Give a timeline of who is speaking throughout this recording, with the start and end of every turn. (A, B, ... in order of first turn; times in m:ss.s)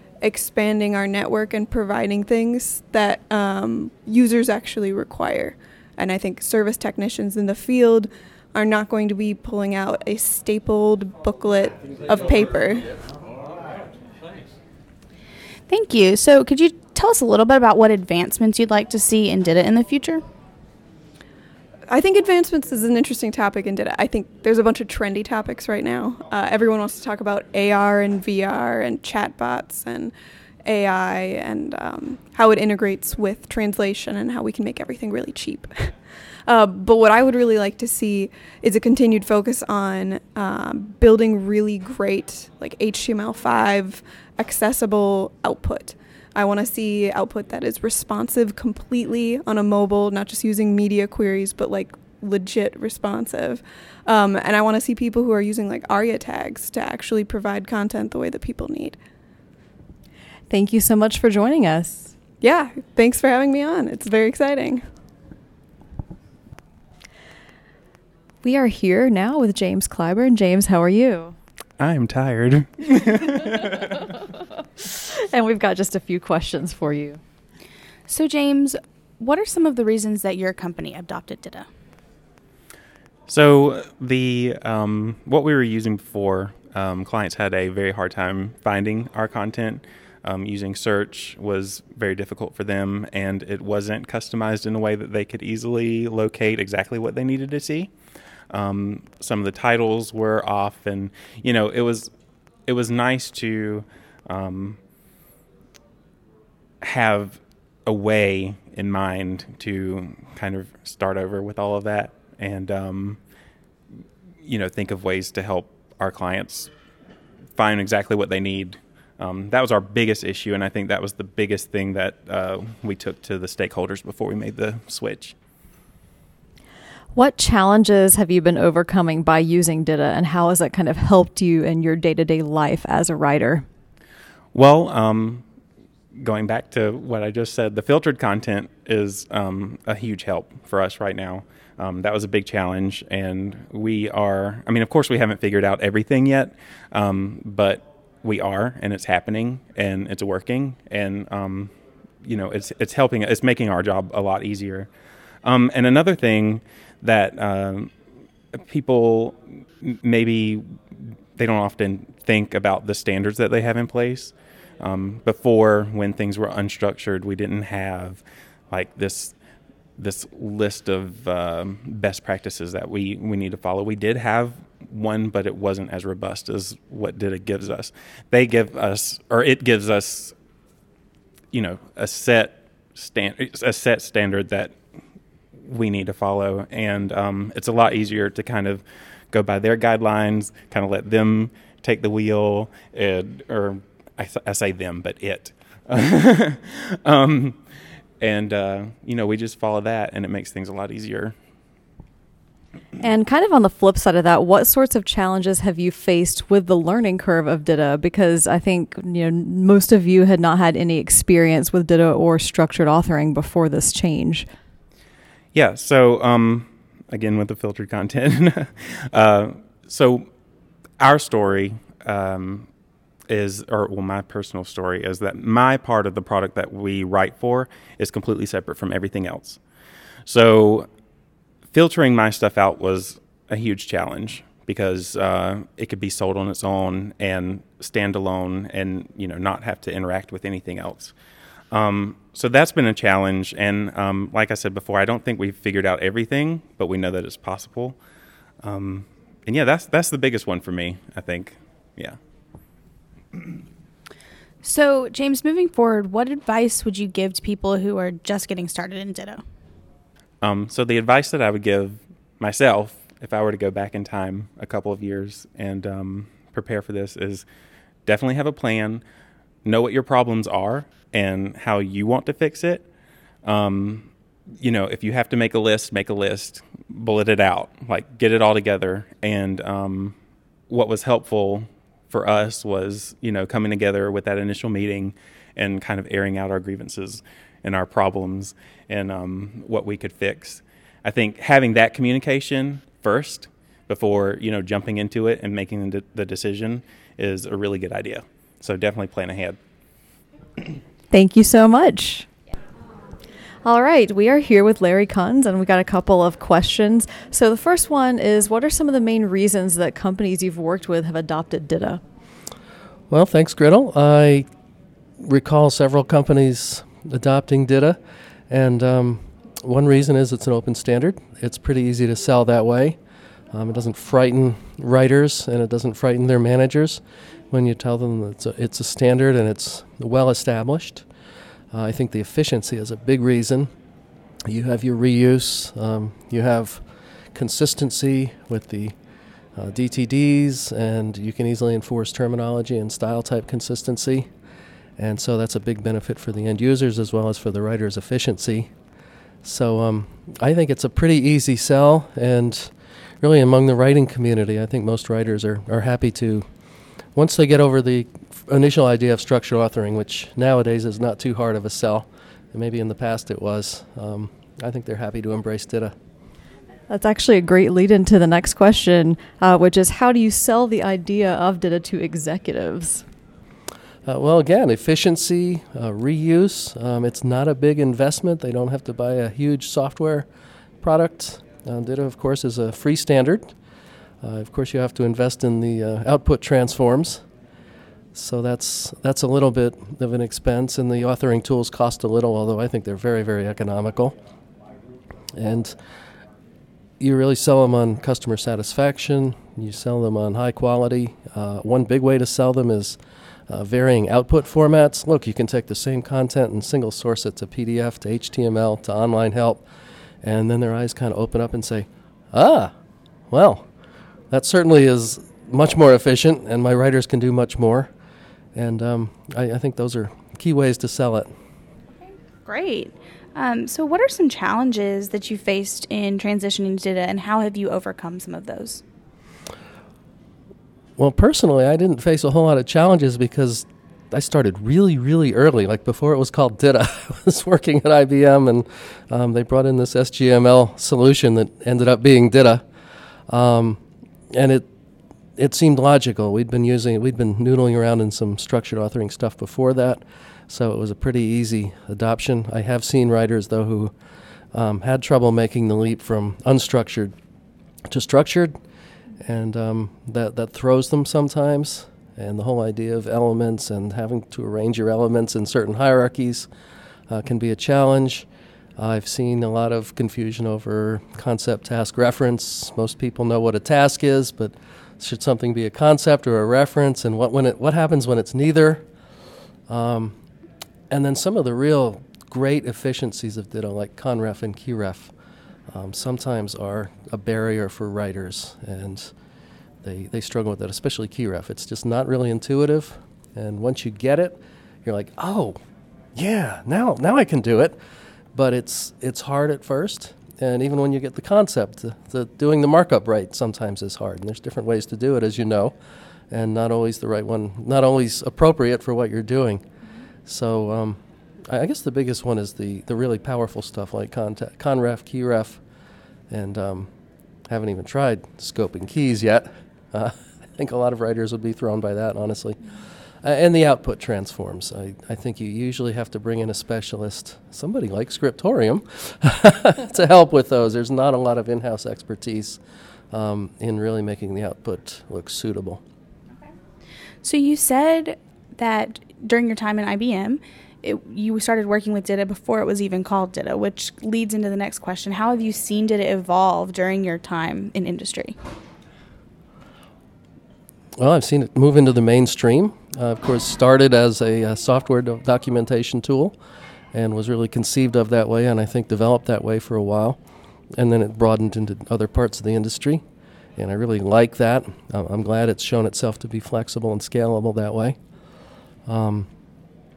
0:00.2-0:12.9 A
0:15.7-0:20.2 B
0:21.9-0:59.0 A
1:00.5-1:02.1 C
1:02.4-1:04.9 A
1:08.4-1:11.4 C
1:11.8-1:13.8 D
1:15.0-1:17.2 C
1:18.1-1:21.7 B
1:23.3-1:37.9 D
1:38.5-1:42.1 D
1:42.6-1:44.8 D
1:46.8-1:53.2 D
1:54.4-1:56.7 D
1:57.5-2:05.4 D
2:07.1-2:13.6 C
2:14.5-2:15.4 D
2:16.1-2:31.7 D
2:32.2-2:34.9 D
2:35.4-2:37.9 D
2:38.6-2:40.6 D
2:41.4-2:49.4 D
2:50.0-3:00.4 D
3:01.5-3:04.7 D
3:05.6-3:17.6 D
3:18.2-3:21.4 D
3:23.0-3:34.5 C
3:35.5-3:40.3 D
3:41.0-3:42.7 D
3:43.3-3:49.6 D
3:50.2-3:50.9 D
3:51.7-4:01.1 D
4:01.7-4:08.0 D
4:08.6-4:12.2 D
4:14.6-4:19.4 B
4:20.4-4:27.4 D
4:28.0-4:29.0 D
4:29.6-4:32.9 D
4:33.4-4:34.1 D
4:34.6-4:40.2 D
4:40.7-4:59.6 D
5:01.1-5:02.3 C
5:03.6-5:12.0 C
5:13.1-5:14.5 E
5:15.2-5:18.0 E
5:18.5-5:23.0 E
5:23.5-5:31.0 E
5:31.7-5:33.7 E
5:34.5-5:36.8 E
5:37.3-5:38.9 E
5:39.6-5:44.3 E
5:45.0-5:48.7 E
5:49.4-5:56.5 E
5:57.1-6:05.9 E
6:06.9-6:13.0 C
6:14.0-6:20.2 E
6:20.8-6:23.5 E
6:24.2-6:27.2 E
6:28.1-6:34.2 E
6:35.4-6:35.8 E
6:37.0-6:49.6 E
6:50.2-6:52.7 E
6:53.3-6:53.6 E
6:54.3-6:57.9 E
6:58.5-7:01.3 E
7:02.4-7:08.8 B
7:11.0-7:22.6 E
7:23.3-7:23.8 E
7:24.3-7:24.7 E
7:25.4-7:33.9 E
7:34.5-7:37.1 E
7:37.9-7:38.6 E
7:39.2-7:46.5 E
7:47.1-7:48.2 E
7:48.8-7:58.8 E
7:59.7-8:00.2 E
8:00.9-8:05.1 E
8:05.7-8:09.1 E
8:09.8-8:15.6 E
8:16.1-8:17.8 E
8:18.4-8:25.7 E
8:26.3-8:29.6 E
8:30.2-8:31.0 E
8:31.5-8:35.6 E
8:36.3-8:36.9 E
8:37.5-8:42.6 E
8:43.2-8:52.6 E
8:53.1-8:55.8 E
8:57.2-9:08.4 B
9:11.0-9:16.4 E
9:16.9-9:20.2 E
9:20.8-9:23.0 E
9:23.6-9:28.0 E
9:28.9-9:29.3 E